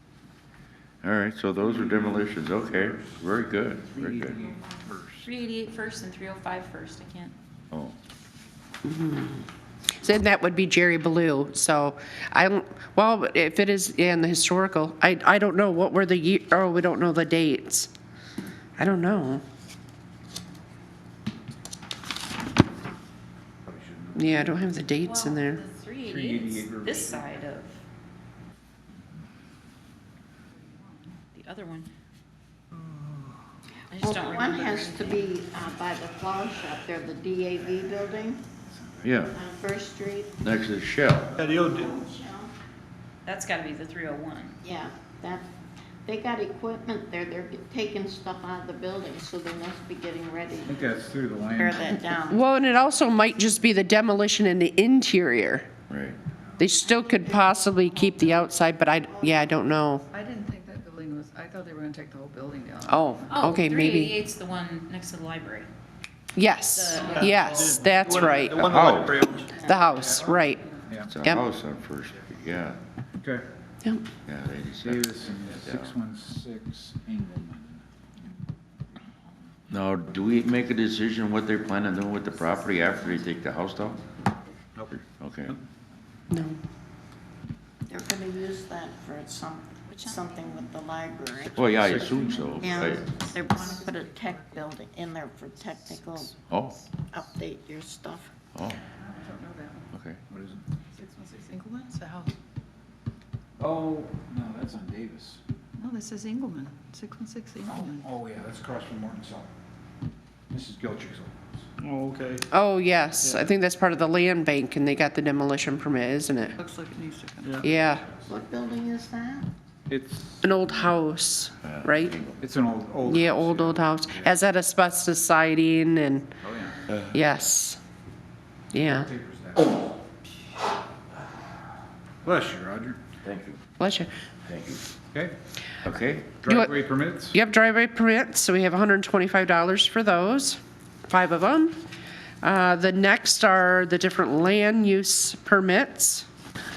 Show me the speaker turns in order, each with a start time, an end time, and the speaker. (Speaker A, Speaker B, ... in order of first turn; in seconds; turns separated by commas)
Speaker A: 1.0-4.5, Speaker B: 1.9-3.2, Speaker B: 3.9-5.3, Speaker C: 5.2-7.3, Speaker A: 7.7-8.0, Speaker D: 8.8-9.4, Speaker D: 10.0-17.9, Speaker D: 18.8-19.4, Speaker B: 23.7-24.7, Speaker D: 24.1-25.6, Speaker C: 25.0-27.8, Speaker B: 26.1-27.4, Speaker C: 31.3-31.9, Speaker C: 33.9-35.3, Speaker E: 34.0-38.4, Speaker B: 38.6-39.1, Speaker A: 39.0-39.3, Speaker E: 39.3-40.4, Speaker A: 40.4-41.4, Speaker F: 41.4-41.9, Speaker E: 41.4-42.5, Speaker C: 43.2-44.5, Speaker E: 44.6-45.5, Speaker E: 46.1-51.0, Speaker B: 50.6-52.0, Speaker E: 51.5-52.4, Speaker D: 52.3-55.7, Speaker A: 55.9-56.2, Speaker D: 56.6-60.1, Speaker E: 56.9-59.6, Speaker G: 60.1-63.1, Speaker D: 62.9-64.1, Speaker C: 63.3-65.7, Speaker D: 66.4-68.6, Speaker C: 66.7-67.9, Speaker F: 67.3-69.6, Speaker A: 68.5-69.3, Speaker D: 69.6-70.6, Speaker A: 71.1-72.8, Speaker B: 73.2-73.5, Speaker A: 74.3-75.9, Speaker B: 74.8-77.8, Speaker A: 79.7-84.1, Speaker A: 84.9-85.6, Speaker D: 86.3-86.6, Speaker E: 87.9-91.7, Speaker C: 89.9-90.7, Speaker A: 91.5-93.1, Speaker B: 91.7-92.5, Speaker E: 92.3-96.3, Speaker G: 92.7-94.7, Speaker A: 96.5-96.8, Speaker E: 97.1-98.3, Speaker A: 98.5-98.8, Speaker G: 99.0-99.9, Speaker A: 99.9-100.2, Speaker B: 100.3-100.6, Speaker G: 100.9-102.4, Speaker B: 103.6-105.4, Speaker G: 105.8-108.2, Speaker B: 107.7-109.5, Speaker B: 110.5-111.7, Speaker F: 111.8-112.4, Speaker D: 112.5-116.5, Speaker G: 116.6-117.7, Speaker D: 117.6-118.0, Speaker E: 118.3-119.5, Speaker B: 119.9-120.5, Speaker D: 120.4-122.1, Speaker A: 121.6-122.5, Speaker B: 122.4-124.3, Speaker D: 123.0-126.3, Speaker B: 126.4-126.8, Speaker A: 126.9-127.2, Speaker D: 127.1-127.8, Speaker D: 128.7-129.1, Speaker B: 128.9-129.7, Speaker B: 132.2-133.0, Speaker A: 133.2-133.6, Speaker D: 133.8-134.1, Speaker A: 134.4-134.8, Speaker A: 135.8-136.5, Speaker B: 136.4-137.4, Speaker D: 136.5-136.8, Speaker D: 137.3-141.8, Speaker D: 142.4-146.3